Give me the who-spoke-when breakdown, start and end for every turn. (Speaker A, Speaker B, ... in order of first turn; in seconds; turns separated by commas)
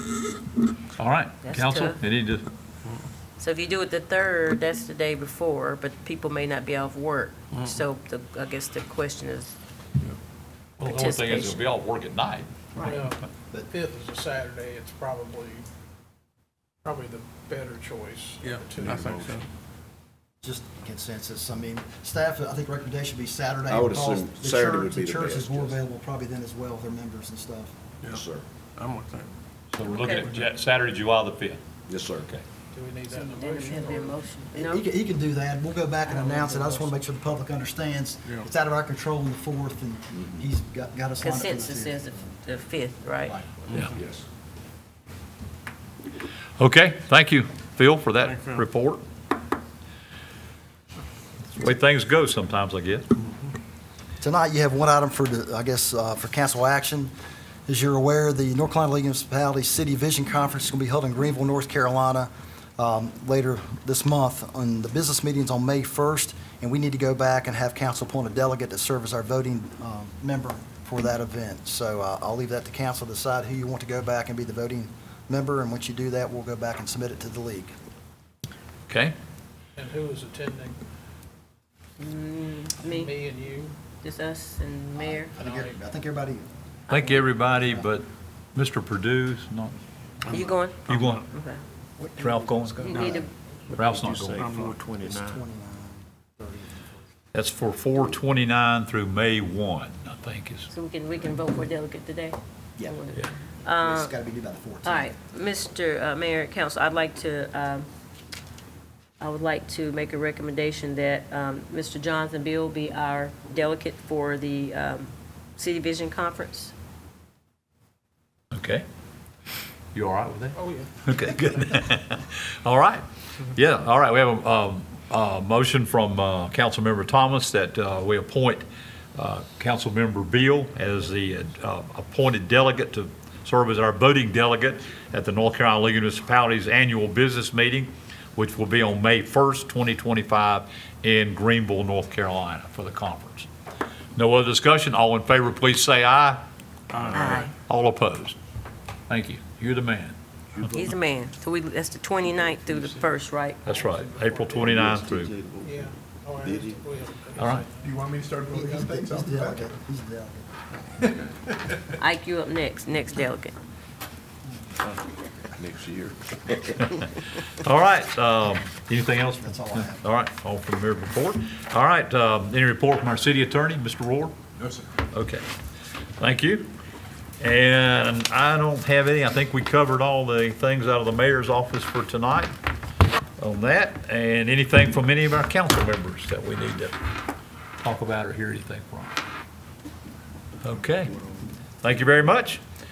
Speaker A: 1.0-2.5, Speaker B: 1.4-2.0, Speaker B: 3.4-9.6, Speaker A: 10.8-12.5, Speaker B: 10.8-11.6, Speaker C: 12.8-15.7, Speaker C: 16.8-19.4, Speaker D: 18.4-19.5, Speaker E: 20.4-27.7, Speaker F: 23.7-25.8, Speaker F: 28.1-28.4, Speaker D: 28.8-29.3, Speaker A: 29.7-31.6, Speaker B: 29.8-30.4, Speaker F: 31.9-32.3, Speaker C: 32.7-34.1, Speaker B: 33.1-34.8, Speaker E: 33.5-42.3, Speaker B: 36.1-36.9, Speaker B: 41.2-43.4, Speaker E: 43.2-43.7, Speaker F: 43.8-44.2, Speaker A: 46.6-49.0, Speaker D: 48.2-48.6, Speaker A: 51.5-53.1, Speaker E: 54.2-57.1, Speaker E: 57.7-77.7, Speaker A: 78.9-79.1, Speaker C: 79.8-80.8, Speaker B: 82.0-83.1, Speaker C: 82.8-83.8, Speaker B: 84.0-85.3, Speaker E: 85.0-86.5, Speaker C: 85.4-85.8, Speaker B: 86.9-87.2, Speaker A: 86.9-89.8, Speaker E: 87.5-87.9, Speaker D: 90.3-91.2, Speaker B: 90.3-91.6, Speaker A: 90.9-91.3, Speaker E: 92.0-93.3, Speaker A: 92.2-92.9, Speaker B: 92.8-93.3, Speaker A: 93.7-94.6, Speaker G: 93.8-95.4, Speaker D: 94.4-94.7, Speaker E: 94.4-96.9, Speaker A: 97.3-100.7, Speaker B: 100.7-104.2, Speaker E: 103.8-105.1, Speaker B: 104.8-107.9, Speaker B: 109.2-116.7, Speaker A: 118.5-118.8, Speaker A: 119.9-143.5, Speaker C: 120.6-120.9, Speaker A: 144.2-146.4, Speaker D: 146.9-147.4, Speaker A: 147.0-148.4, Speaker B: 147.1-147.5, Speaker A: 149.1-150.2, Speaker B: 150.7-153.7, Speaker A: 153.6-155.4, Speaker C: 153.9-154.5, Speaker G: 154.5-155.8, Speaker C: 155.6-158.1, Speaker G: 156.4-156.8, Speaker A: 157.3-157.7, Speaker G: 157.8-159.6, Speaker E: 158.5-160.5, Speaker B: 162.0-163.6, Speaker F: 165.6-166.1, Speaker A: 167.0-174.3, Speaker E: 169.4-170.0, Speaker A: 175.1-175.4, Speaker A: 176.2-176.7, Speaker A: 177.4-182.5, Speaker A: 183.4-187.0, Speaker A: 187.8-189.2, Speaker A: 190.6-191.2, Speaker A: 191.8-192.6